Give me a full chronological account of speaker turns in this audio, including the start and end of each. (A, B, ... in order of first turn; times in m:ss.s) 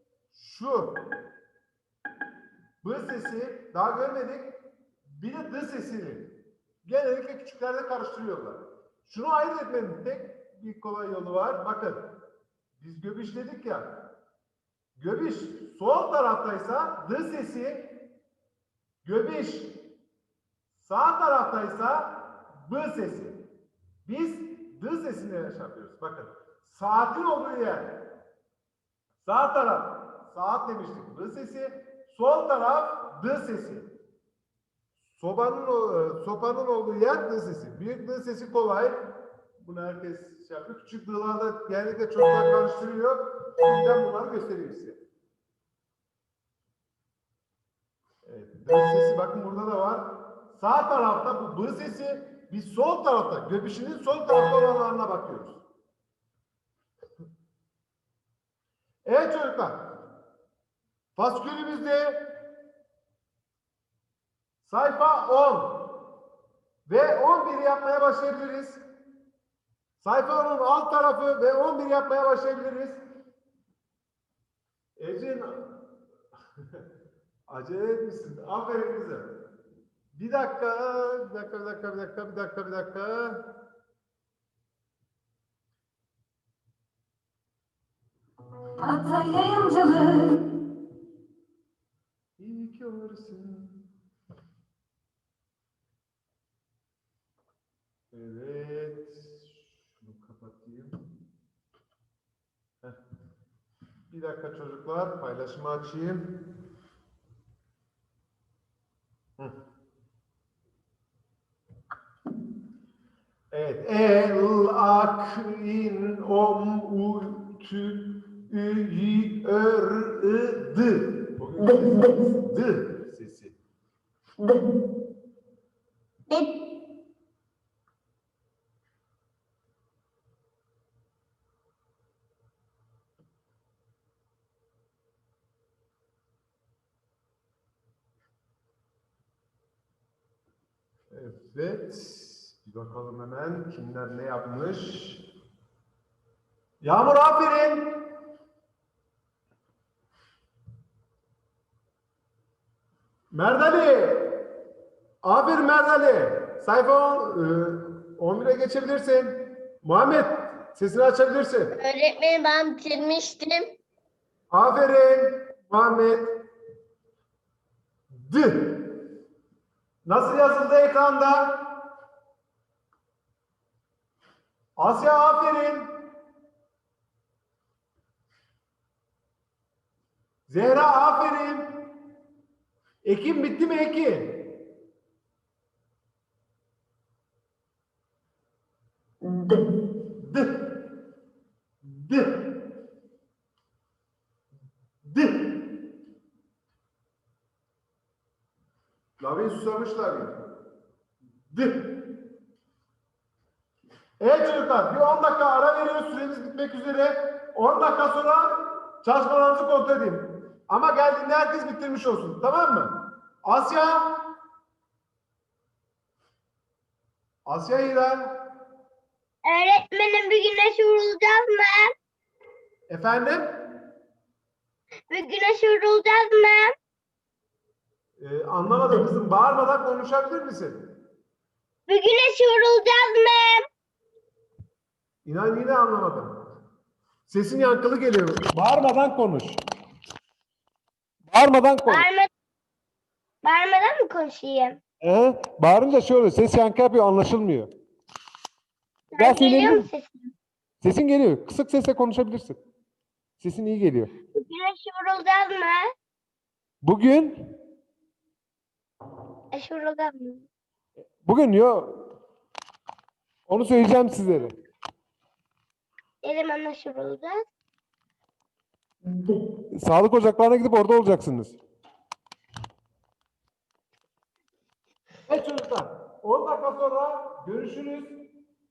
0:00.3-0:01.0 A
0:02.8-0:06.3 A
0:06.8-0:12.1 A
0:12.8-0:14.0 A
0:15.0-0:18.0 A
0:19.0-0:19.8 A
0:20.8-0:23.4 A
0:24.0-0:28.0 A
0:29.2-0:33.9 A
0:35.1-0:45.0 A
0:48.2-0:55.6 A
0:59.0-0:59.9 A
1:01.2-1:02.2 A
1:04.6-1:05.9 A
1:06.9-1:08.8 A
1:10.0-1:13.0 A
1:15.0-1:15.8 A
1:17.5-1:19.3 A
1:20.1-1:23.5 A
1:28.8-1:30.4 B
1:32.4-1:33.8 A
1:38.1-1:41.0 A
1:44.1-1:46.3 A
1:53.5-2:03.5 A
2:01.6-2:02.3 B
2:04.4-2:04.7 B
2:21.1-2:25.2 A
2:26.8-2:28.0 A
2:33.3-2:34.4 A
2:35.2-2:41.8 A
2:41.8-2:43.8 C
2:44.5-2:46.3 A
2:48.1-2:48.9 A
2:50.0-2:51.7 A
2:54.8-2:55.9 A
3:00.5-3:01.8 A
3:03.0-3:04.5 A
3:09.2-3:09.7 B
3:10.2-3:10.7 A
3:11.8-3:12.5 A
3:15.0-3:15.7 A
3:19.2-3:20.4 A
3:21.5-3:22.0 A
3:24.2-3:34.2 A
3:37.5-3:38.4 A
3:39.4-3:41.9 C
3:42.9-3:43.6 A
3:45.1-3:46.7 C
3:48.2-3:50.8 A
3:51.9-3:53.6 C
3:55.2-3:56.4 A
3:57.3-3:59.6 A
4:01.3-4:02.1 A
4:01.9-4:02.3 C
4:03.4-4:04.8 C
4:05.0-4:07.7 A
4:09.1-4:10.3 C
4:09.1-4:09.9 A
4:10.8-4:12.6 A
4:13.4-4:14.1 A
4:14.3-4:15.9 C
4:16.8-4:17.5 A
4:19.5-4:20.4 C
4:21.2-4:22.1 A
4:23.5-4:24.6 A
4:26.2-4:27.4 C
4:29.0-4:29.4 B
4:29.7-4:31.6 A
4:35.3-4:38.2 A